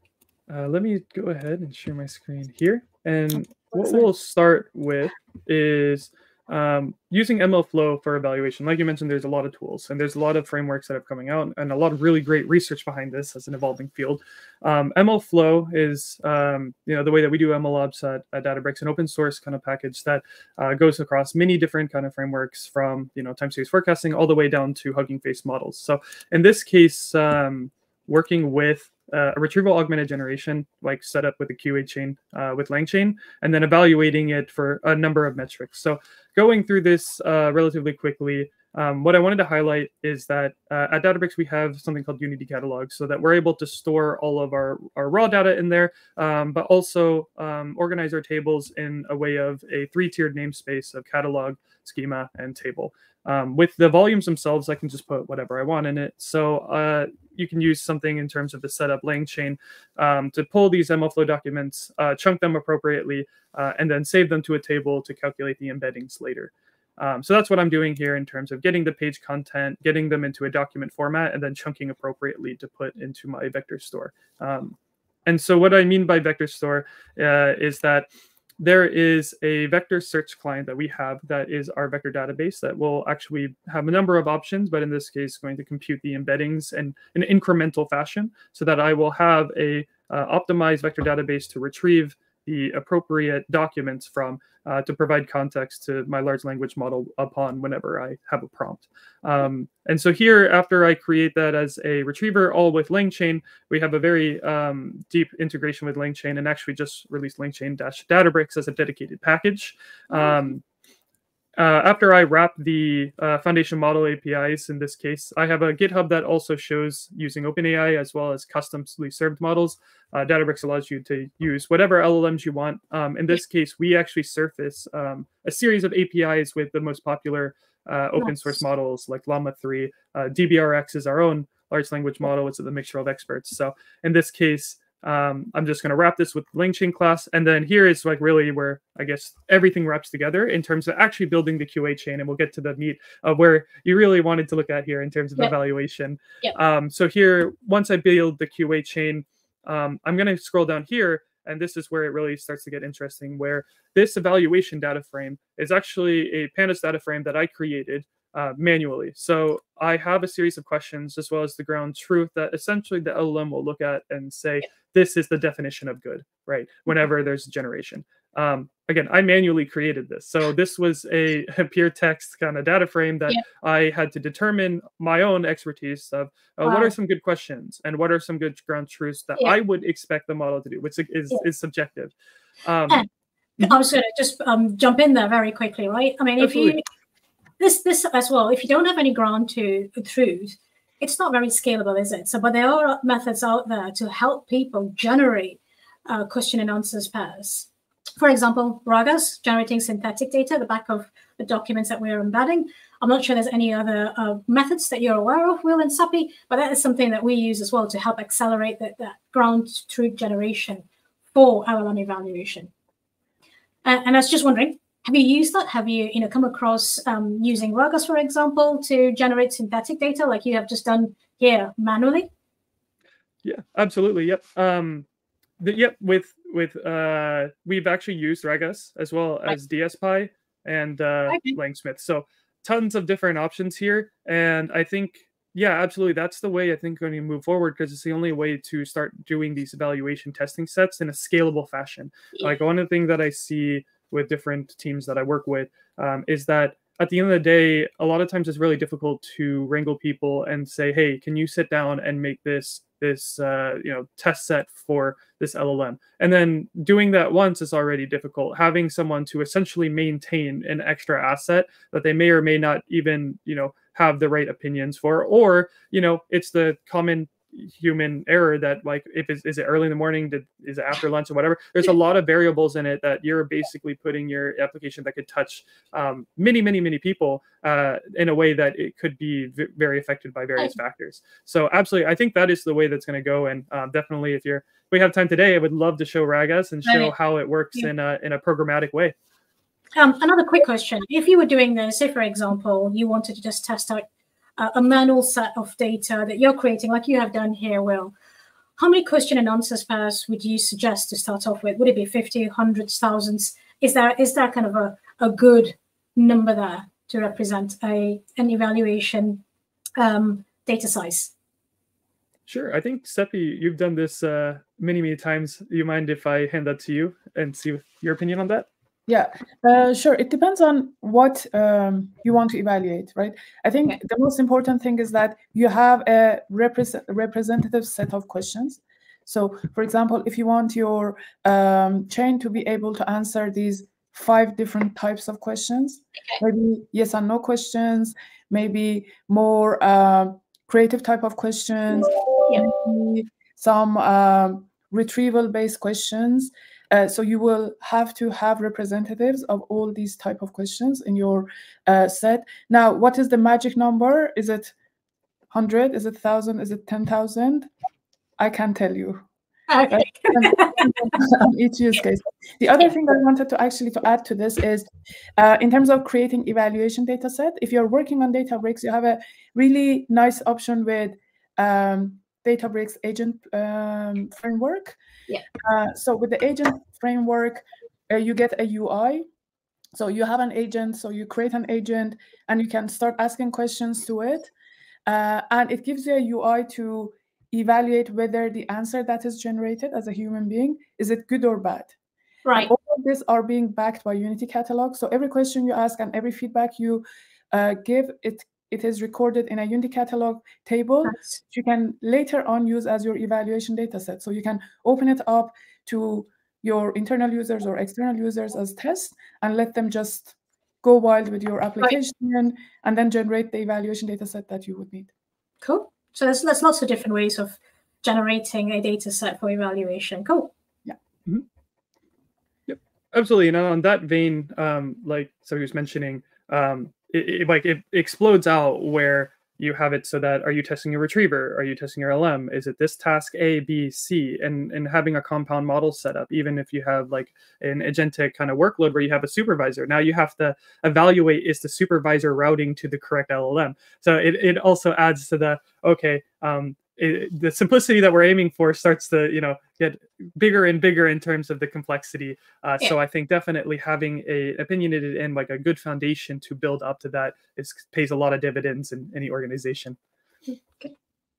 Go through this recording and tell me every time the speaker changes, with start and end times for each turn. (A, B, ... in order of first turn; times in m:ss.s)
0:00.5-1:18.1 A
1:18.6-1:50.6 A
1:50.1-1:50.4 B
1:51.6-3:02.1 A
2:56.6-2:56.9 B
3:02.6-3:03.0 A
3:03.6-3:06.8 B
3:06.4-3:06.8 A
3:07.6-3:17.7 B
3:18.2-3:32.7 B
3:33.8-3:42.3 B
3:43.4-3:45.0 A
3:45.6-4:49.1 A
3:51.3-3:51.6 B
4:46.8-4:47.1 B
4:50.0-4:54.1 B
4:54.6-4:58.1 B
4:58.8-5:09.4 B
5:10.0-5:11.3 B
5:12.5-5:18.6 A
5:19.1-5:54.7 C
5:55.5-5:57.7 C
5:58.4-5:59.2 C
5:59.7-6:00.9 B
5:59.9-6:04.8 C
6:05.4-6:15.0 C
6:15.6-6:19.2 C
6:19.9-6:24.5 C
6:25.0-6:31.9 C
6:32.4-6:32.7 B
6:32.6-6:55.1 C
6:55.6-7:00.5 B
7:02.7-7:40.0 A
7:40.5-7:40.9 B